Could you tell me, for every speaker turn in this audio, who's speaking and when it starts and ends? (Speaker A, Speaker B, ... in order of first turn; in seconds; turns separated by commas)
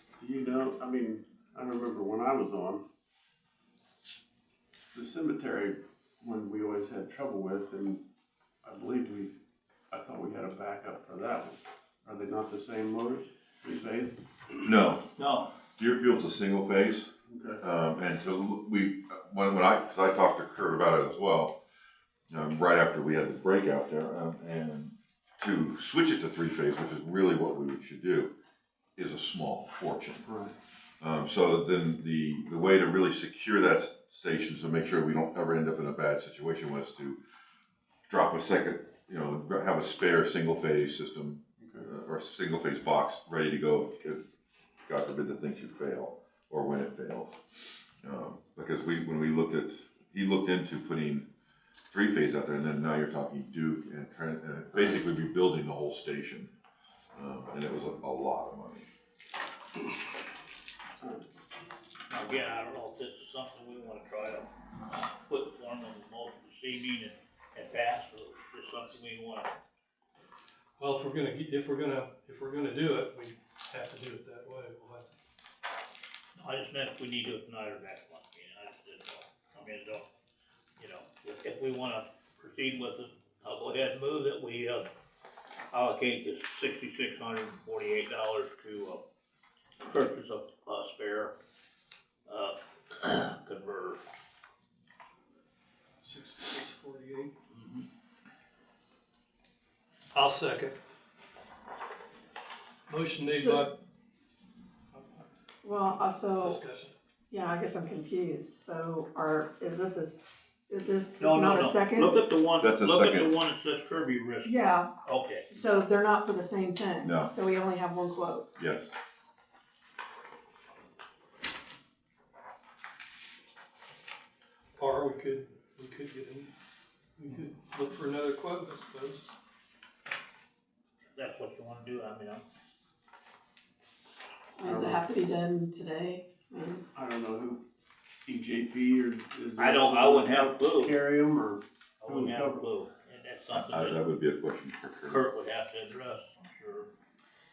Speaker A: 0.2-2.8, Speaker A: 4.9-8.0, Speaker A: 8.6-9.3, Speaker A: 9.9-14.2, Speaker B: 14.6-15.1, Speaker C: 15.2-15.5, Speaker B: 15.8-17.1, Speaker A: 17.3-17.6, Speaker B: 17.6-21.6, Speaker B: 22.3-28.3, Speaker B: 29.0-30.3, Speaker A: 30.3-30.6, Speaker B: 31.0-37.2, Speaker B: 38.1-44.2, Speaker A: 41.6-41.9, Speaker B: 44.9-47.4, Speaker B: 48.0-51.3, Speaker B: 51.9-56.5, Speaker B: 57.1-58.9, Speaker A: 61.0-61.3, Speaker C: 62.1-64.5, Speaker C: 65.2-69.5, Speaker D: 70.8-75.1, Speaker C: 76.4-80.0, Speaker C: 80.8-84.9, Speaker C: 85.7-89.0, Speaker C: 89.8-91.3, Speaker C: 92.3-94.0, Speaker D: 96.0-97.3, Speaker C: 97.5-97.8, Speaker D: 100.1-100.8, Speaker D: 102.9-103.7, Speaker E: 103.2-103.7, Speaker E: 105.6-106.6, Speaker D: 106.4-106.9, Speaker E: 107.3-112.1, Speaker C: 111.2-115.5, Speaker B: 112.6-113.3, Speaker E: 114.4-114.9, Speaker E: 115.5-118.5, Speaker B: 117.0-117.3, Speaker B: 118.6-118.9, Speaker D: 124.8-126.5, Speaker D: 127.2-129.3, Speaker C: 131.2-132.4, Speaker E: 134.6-136.8, Speaker A: 134.6-135.0, Speaker A: 136.9-137.6, Speaker A: 138.3-142.7, Speaker C: 139.6-141.0, Speaker C: 142.0-144.0, Speaker B: 143.5-145.2, Speaker C: 145.1-146.9